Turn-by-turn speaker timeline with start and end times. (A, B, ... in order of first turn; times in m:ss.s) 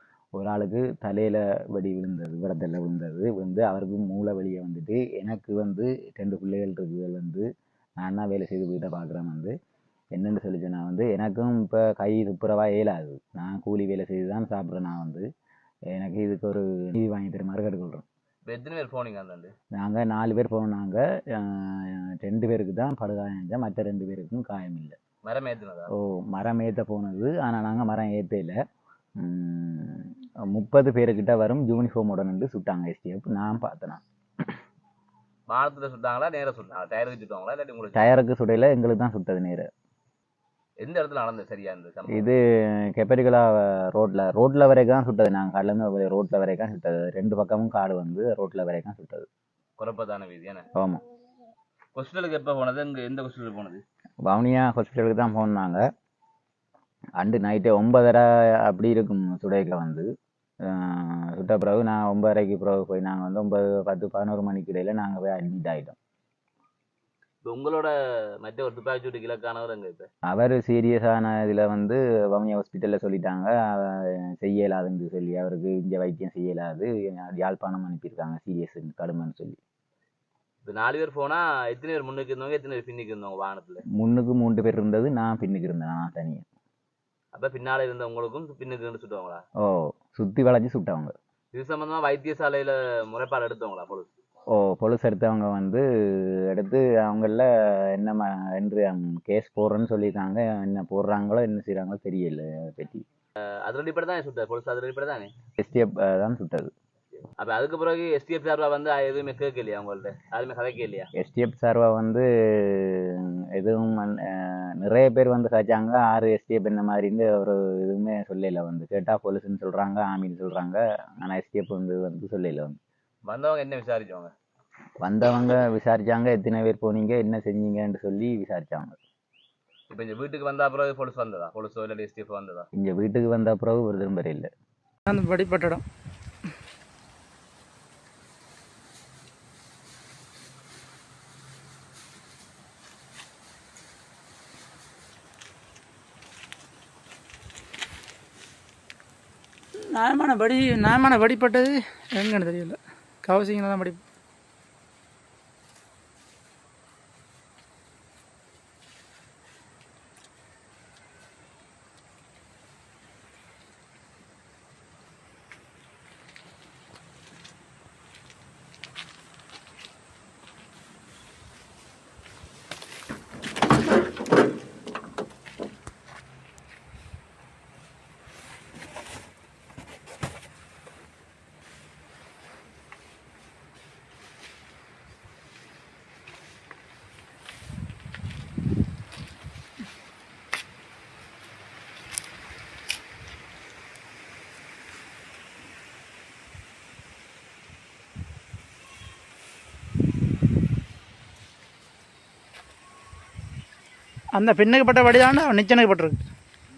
0:00.4-0:07.4 A
0:08.0-0:09.5 A
0:10.2-0:15.2 A
0:15.9-0:18.0 A
0:18.5-0:19.5 B
0:19.8-0:25.0 A
0:25.2-0:25.9 B
0:25.9-0:28.6 A
0:29.2-0:34.0 A
0:35.5-0:38.1 B
0:37.9-0:39.7 A
0:40.8-0:42.3 B
0:42.1-0:42.4 A
0:43.0-0:49.3 A
0:49.8-0:50.7 B
0:50.8-0:51.0 A
0:52.0-0:53.8 B
0:54.3-0:55.8 A
0:57.2-1:00.1 A
1:00.7-1:06.0 A
1:07.4-1:10.1 B
1:10.3-1:19.6 A
1:20.6-1:23.8 B
1:24.0-1:26.5 A
1:27.4-1:29.4 B
1:29.6-1:31.1 A
1:31.5-1:34.1 B
1:34.6-1:35.8 A
1:36.5-1:43.0 A
1:43.6-1:45.3 B
1:45.6-1:46.7 A
1:47.4-1:51.1 B
1:51.2-2:02.8 A
2:03.3-2:04.3 B
2:05.0-2:09.0 A
2:09.9-2:12.7 B
2:12.8-2:14.5 A
2:15.1-2:15.8 C
2:29.9-2:34.0 C
3:24.4-3:26.3 C